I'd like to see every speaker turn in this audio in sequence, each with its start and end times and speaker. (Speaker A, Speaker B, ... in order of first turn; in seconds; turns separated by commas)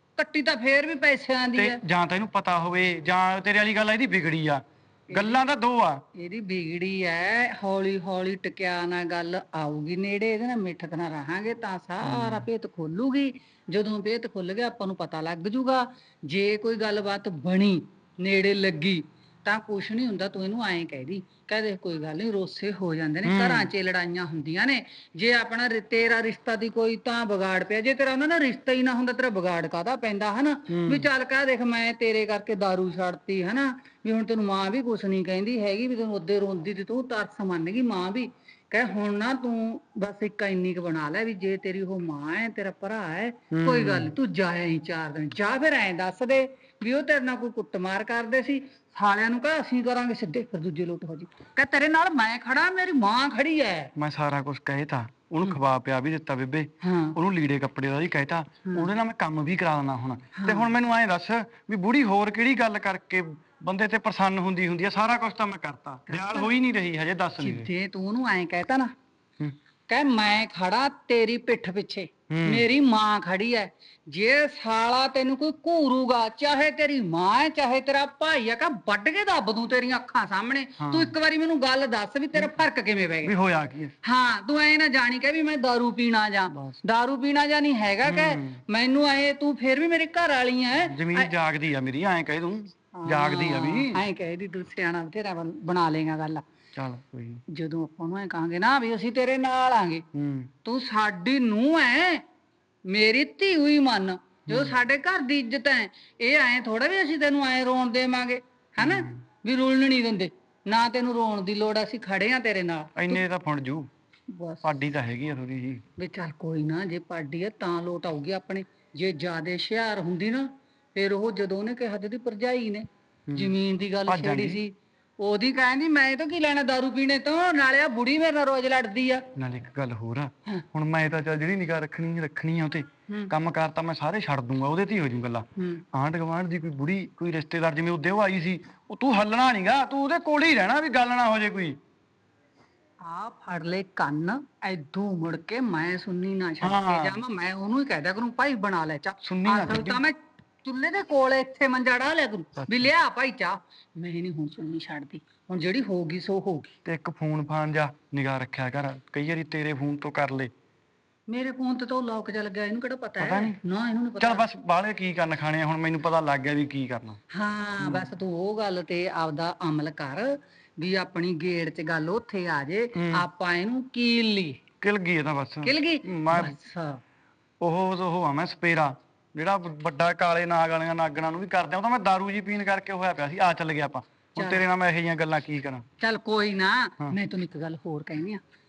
Speaker A: 0.2-1.8, Speaker B: 1.6-6.0, Speaker A: 5.1-5.4, Speaker A: 6.2-53.9, Speaker B: 12.0-12.5, Speaker B: 23.2-23.7, Speaker B: 30.7-31.1, Speaker B: 43.5-44.1, Speaker B: 54.0-67.7, Speaker A: 56.8-57.2, Speaker A: 60.4-60.7, Speaker A: 66.1-66.5, Speaker A: 67.4-68.9, Speaker A: 69.9-83.3, Speaker B: 72.3-72.7, Speaker B: 80.8-81.1, Speaker B: 83.2-83.9, Speaker A: 84.0-91.3, Speaker B: 86.5-86.8, Speaker B: 88.0-88.6, Speaker B: 90.9-94.0, Speaker A: 93.0-96.4, Speaker B: 96.8-97.4, Speaker A: 97.5-100.1, Speaker B: 100.1-100.5, Speaker A: 100.7-102.2, Speaker A: 102.9-113.2, Speaker B: 104.5-104.8, Speaker B: 108.8-109.2, Speaker B: 113.0-113.9, Speaker A: 114.3-114.7, Speaker B: 114.6-115.8, Speaker A: 116.0-129.2, Speaker B: 123.3-123.5, Speaker B: 124.1-124.6, Speaker B: 129.4-141.8, Speaker A: 135.6-135.8, Speaker A: 143.0-156.7, Speaker B: 146.6-147.2, Speaker B: 149.2-150.0, Speaker B: 152.6-152.9, Speaker B: 156.9-160.5, Speaker A: 161.3-164.4, Speaker B: 163.2-163.6, Speaker B: 164.2-167.2, Speaker A: 167.3-174.6, Speaker B: 167.8-168.1, Speaker B: 173.0-173.3, Speaker B: 174.8-176.6, Speaker A: 175.7-177.0, Speaker B: 177.6-185.8, Speaker A: 184.4-184.6, Speaker A: 186.0-188.4